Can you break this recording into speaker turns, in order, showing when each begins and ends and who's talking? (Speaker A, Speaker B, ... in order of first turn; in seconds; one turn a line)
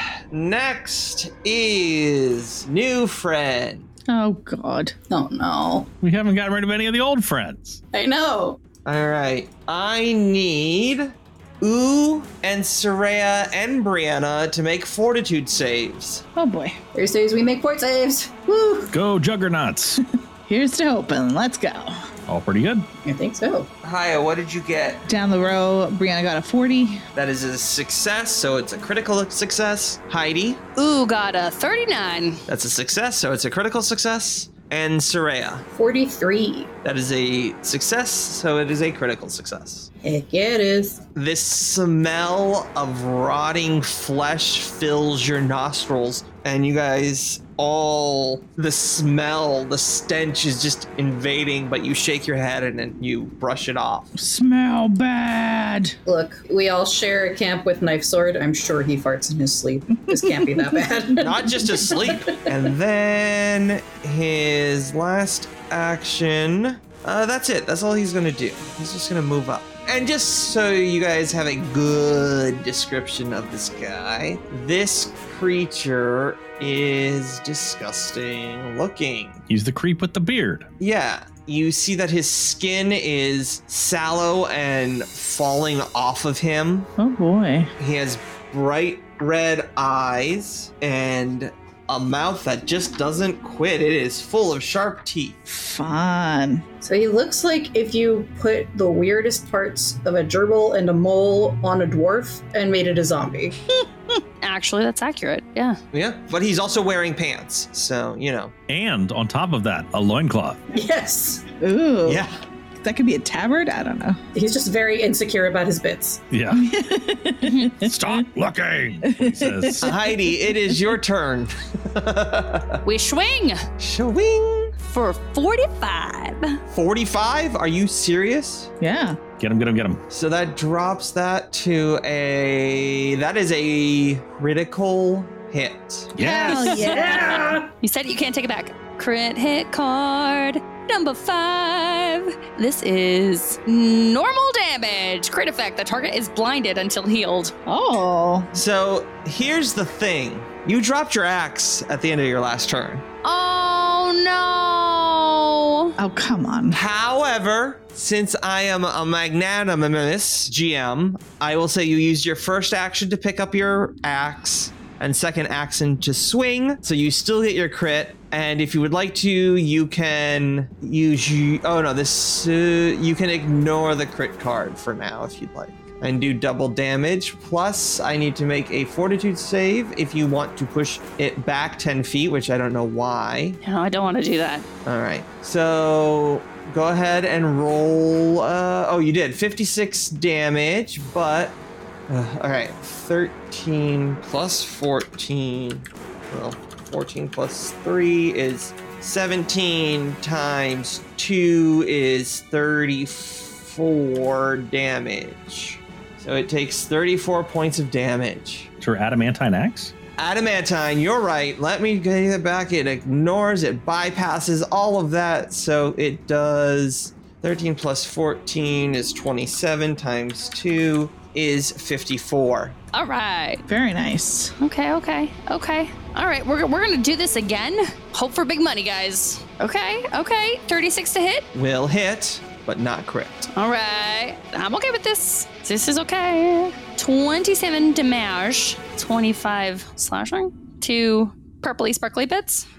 Speaker A: 0.3-3.9
Speaker B: 4.1-4.9
Speaker C: 5.1-5.9
Speaker D: 6.0-7.8
Speaker C: 7.9-8.6
Speaker A: 8.8-16.2
Speaker B: 16.4-16.8
Speaker C: 16.9-18.9
Speaker D: 18.9-20.0
Speaker B: 20.4-22.0
Speaker D: 22.3-22.9
Speaker C: 23.0-23.7
Speaker A: 23.8-25.1
Speaker B: 25.1-27.1
Speaker A: 27.1-30.6
Speaker E: 30.8-32.4
Speaker A: 32.5-35.6
Speaker C: 35.7-36.7
Speaker A: 36.8-39.9
Speaker C: 40.0-41.0
Speaker A: 41.1-54.1
Speaker B: 54.1-55.9
Speaker C: 56.0-62.5
Speaker A: 61.2-79.5
Speaker D: 79.5-80.7
Speaker A: 80.8-86.9
Speaker B: 87.0-87.7
Speaker A: 87.8-95.4
Speaker B: 95.5-96.6
Speaker C: 96.8-103.5
Speaker E: 104.4-105.8
Speaker A: 105.9-108.5
Speaker D: 108.7-110.6
Speaker C: 110.7-111.4
Speaker B: 111.6-112.2
Speaker A: 112.0-112.4
Speaker B: 112.8-114.2
Speaker C: 114.3-116.2
Speaker D: 116.3-116.7
Speaker B: 116.5-118.2
Speaker E: 117.4-117.8
Speaker D: 117.8-120.0
Speaker B: 119.0-120.3
Speaker A: 119.8-122.8
Speaker E: 122.8-123.6
Speaker A: 123.8-124.7
Speaker E: 124.9-126.6
Speaker A: 126.7-128.7
Speaker B: 128.8-129.2
Speaker D: 129.4-130.0
Speaker A: 130.1-136.1
Speaker D: 136.1-137.6
Speaker B: 136.2-137.6
Speaker E: 136.5-147.5
Speaker B: 147.7-148.5
Speaker A: 148.5-153.0
Speaker E: 153.2-155.9
Speaker B: 156.0-156.8
Speaker A: 156.7-183.6
Speaker E: 183.6-184.7
Speaker A: 184.8-208.7
Speaker D: 208.8-209.9
Speaker A: 210.2-222.8
Speaker E: 222.9-223.6
Speaker B: 223.7-224.5
Speaker E: 224.6-231.5
Speaker A: 231.5-233.5
Speaker E: 233.5-242.7